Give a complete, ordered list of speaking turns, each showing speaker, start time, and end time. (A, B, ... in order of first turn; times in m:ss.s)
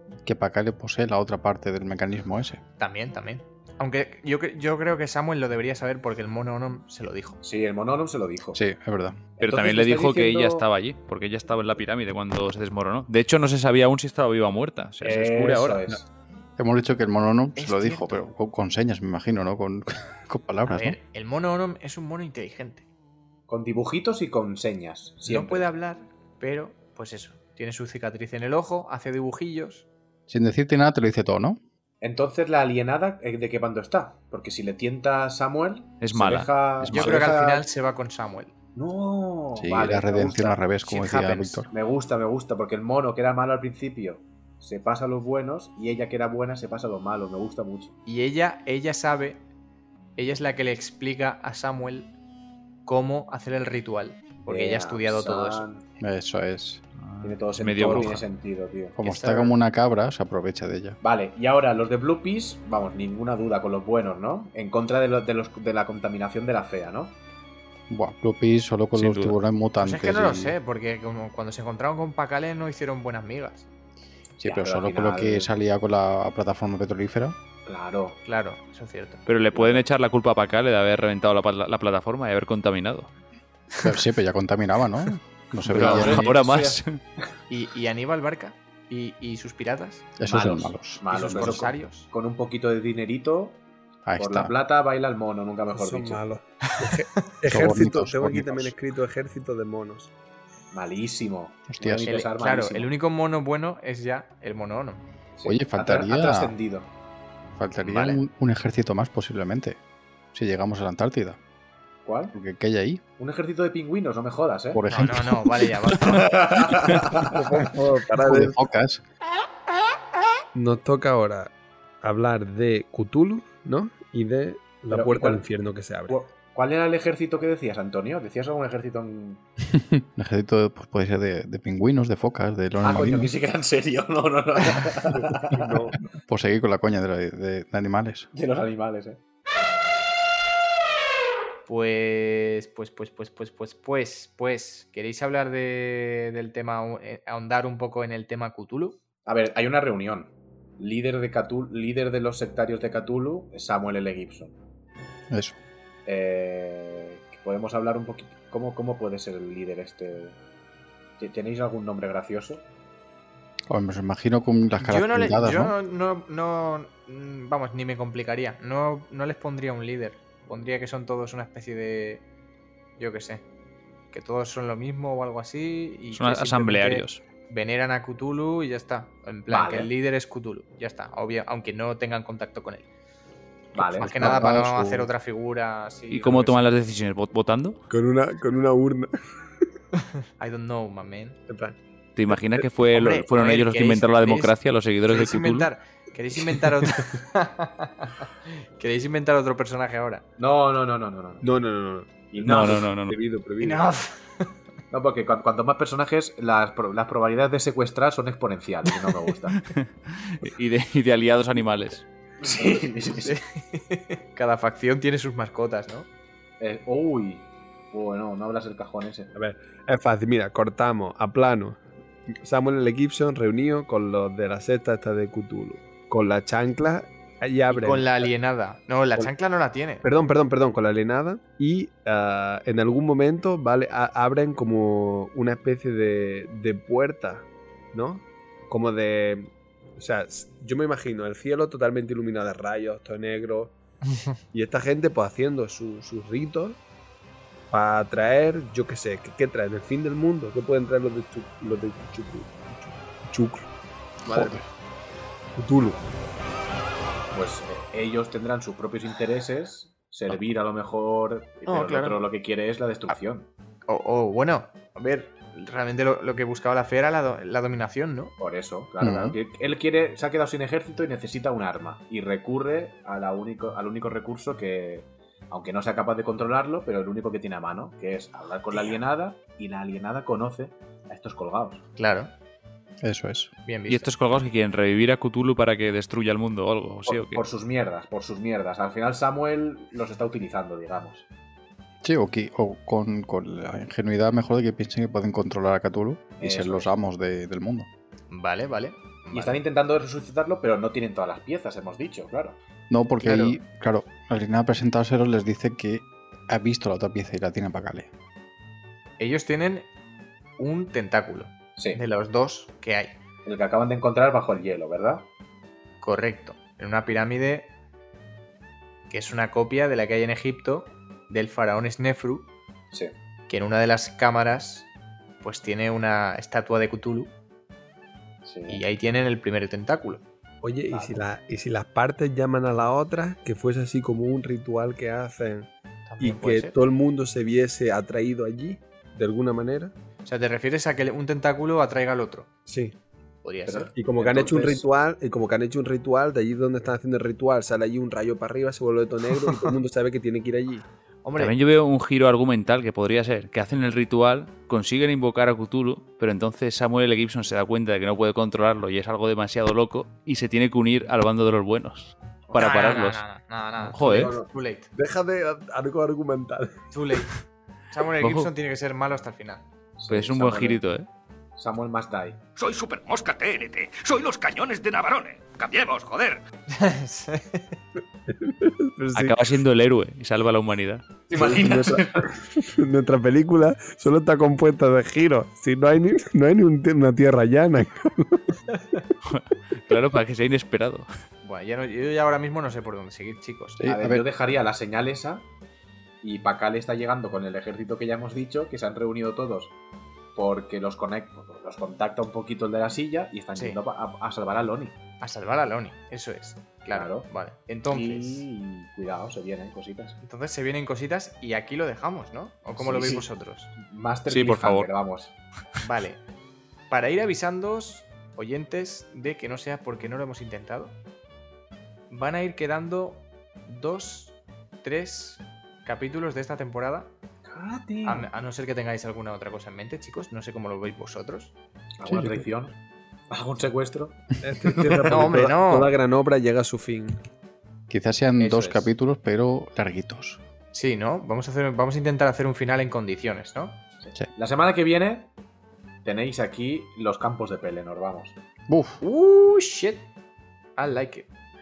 0:00.2-0:02.6 A
0:02.8-0:07.4 B
0:07.4-0:08.6 C
0:08.5-0:09.2 A
0:09.4-0:10.6 C
0:09.4-0:16.0 D
0:15.0-0:16.1 C
0:16.6-0:21.0 A
0:17.6-0:18.2 B
0:20.7-0:22.8 B
0:23.5-0:25.7 C
0:25.2-0:29.8 B
0:30.3-0:31.6 A
0:32.0-0:37.6 C
0:36.0-0:37.3 D
0:36.9-0:38.5 B
0:38.7-0:40.6 C
0:39.6-0:41.7 A
0:40.8-0:41.6 B
0:41.7-0:47.9 C
0:48.0-0:49.4 B
0:50.2-0:52.1 B
0:52.8-0:55.6 B
0:54.5-0:55.8 C
0:56.0-0:56.8 A
0:57.0-0:58.2 D
0:57.2-0:59.0 C
0:58.9-1:01.0 A
0:59.0-0:59.5 B
1:01.0-1:07.2 C
1:07.9-1:10.6 A
1:08.9-1:09.4 D
1:09.8-1:13.7 B
1:14.4-1:17.4 A
1:14.4-1:15.5 C
1:17.6-1:18.2 C
1:18.2-1:19.2 B
1:19.3-1:23.1 D
1:19.5-1:19.8 C
1:23.8-1:26.4 A
1:25.7-1:27.0 D
1:25.7-1:26.8 C
1:27.5-1:30.1 B
1:30.2-1:31.7 A
1:30.2-1:33.6 C
1:31.1-1:32.1 B
1:34.0-1:34.5 A
1:34.2-1:36.2 C
1:35.7-1:40.1 E
1:36.7-1:37.0 B
1:37.5-1:38.7 A
1:40.7-1:42.9 C
1:41.7-1:42.2 A
1:42.0-1:45.0 B
1:45.4-1:46.9 C
1:45.4-1:46.5 A
1:47.6-1:49.8 A
1:47.8-1:48.2 B
1:50.3-1:51.4 A
1:52.0-1:52.3 C
1:52.3-1:53.0 A
1:53.2-1:54.8 C
1:54.7-1:55.7 A
1:54.9-1:56.3 B
1:56.1-1:57.5 C
1:57.2-1:58.6 E
1:58.2-1:59.0 A
2:00.5-2:06.2 E
2:04.9-2:05.4 C
2:06.1-2:09.4 C
2:09.7-2:13.3 A
2:12.8-2:15.9 C
2:15.1-2:16.0 E
2:16.3-2:18.3 A
2:18.3-2:19.2 C
2:21.7-2:29.0 B
2:29.2-2:34.6 C
2:35.3-2:35.6 A
2:36.0-2:40.4 C
2:41.2-2:42.6 C
2:43.7-2:45.8 A
2:44.8-2:52.2 B
2:53.0-2:53.4 B
2:54.1-3:02.8 B
2:56.1-2:57.2 D
2:59.5-2:59.9 C
3:03.7-3:04.4 C
3:03.7-3:05.1 A
3:04.0-3:06.7 B
3:06.1-3:07.8 D
3:07.9-3:09.1 E
3:10.4-3:11.4 B
3:11.5-3:11.8 E
3:12.2-3:15.7 D
3:12.3-3:12.6 E
3:12.9-3:14.5 B
3:15.0-3:20.2 B
3:20.4-3:21.4 C
3:21.4-3:23.8 E
3:22.3-3:22.9 C
3:22.4-3:23.2 D
3:23.6-3:24.5 B
3:24.9-3:29.6 C
3:29.7-3:32.0 D
3:32.4-3:33.4 C
3:33.2-3:36.1 B
3:36.6-3:39.3 C
3:39.3-3:41.8 E
3:42.4-3:48.3 E
3:47.7-3:50.0 B
3:50.0-4:03.7 E
4:04.5-4:06.8 E
4:07.7-4:13.7 E
4:14.2-4:14.6 A
4:14.2-4:14.6 E
4:15.6-4:16.0 E
4:17.3-4:23.5 C
4:21.6-4:22.2 B
4:23.9-4:28.3 B
4:28.4-4:41.8 C
4:29.0-4:29.4 A
4:42.0-4:42.3 B
4:43.0-4:43.5 A
4:43.6-4:44.1 B
4:43.9-4:47.4 D
4:47.1-4:51.2 C
4:52.0-4:57.9 A
4:56.4-4:56.9 C
4:58.3-4:59.6 B
4:59.3-5:02.6 C
5:02.9-5:08.1 A
5:03.2-5:03.6 B
5:09.2-5:09.8 B
5:10.6-5:13.2 B
5:13.4-5:15.2 C
5:16.0-5:17.7 B
5:19.1-5:22.5 B
5:23.5-5:24.9 B
5:25.4-5:27.3 B
5:28.4-5:28.8 C
5:28.7-5:30.2 B
5:30.6-5:39.9 E
5:30.9-5:31.2 C
5:36.1-5:36.7 B
5:40.2-5:42.5 B
5:42.7-5:43.0 E
5:43.4-5:43.9 B
5:43.6-5:44.8 C
5:43.9-5:50.8 E
5:51.2-5:51.5 B
5:51.4-6:03.2 D
6:02.5-6:03.0 C
6:02.5-6:04.9 B
6:03.9-6:04.4 D
6:04.0-6:06.8 E
6:06.9-6:07.3 B
6:07.9-6:09.6 B
6:08.2-6:08.5 D
6:10.0-6:10.8 C
6:10.1-6:11.1 D
6:11.6-6:12.4 C
6:12.6-6:16.4 F
6:16.7-6:17.7 B
6:18.3-6:19.4 E
6:19.1-6:21.0 D
6:21.3-6:22.3 C
6:21.3-6:28.6 E
6:29.2-6:31.1 D
6:31.4-6:33.8 B
6:33.8-6:34.3 A
6:33.8-6:35.4 C
6:36.2-6:39.7 C
6:40.3-6:45.0 C
6:43.6-6:43.8 B
6:45.2-6:48.4 B
6:46.9-6:47.3 C
6:47.9-6:50.2 C
6:50.2-6:53.7 B
6:52.8-6:53.2 C
6:53.8-6:55.3 C
6:54.3-6:54.9 D
6:55.8-6:56.2 B
6:56.9-7:01.0 B
7:02.1-7:07.1 B
7:07.4-7:08.3 C
7:08.0-7:11.5 B
7:12.0-7:12.8 C
7:12.0-7:12.4 A
7:13.3-7:15.2 C
7:14.4-7:17.1 E
7:15.1-7:15.9 B
7:17.9-7:20.4 A
7:18.4-7:18.9 B
7:20.7-7:23.8 B
7:24.0-7:25.3 C
7:26.0-7:28.4 C
7:28.7-7:29.0 A
7:29.0-7:30.1 B
7:30.8-7:31.3 B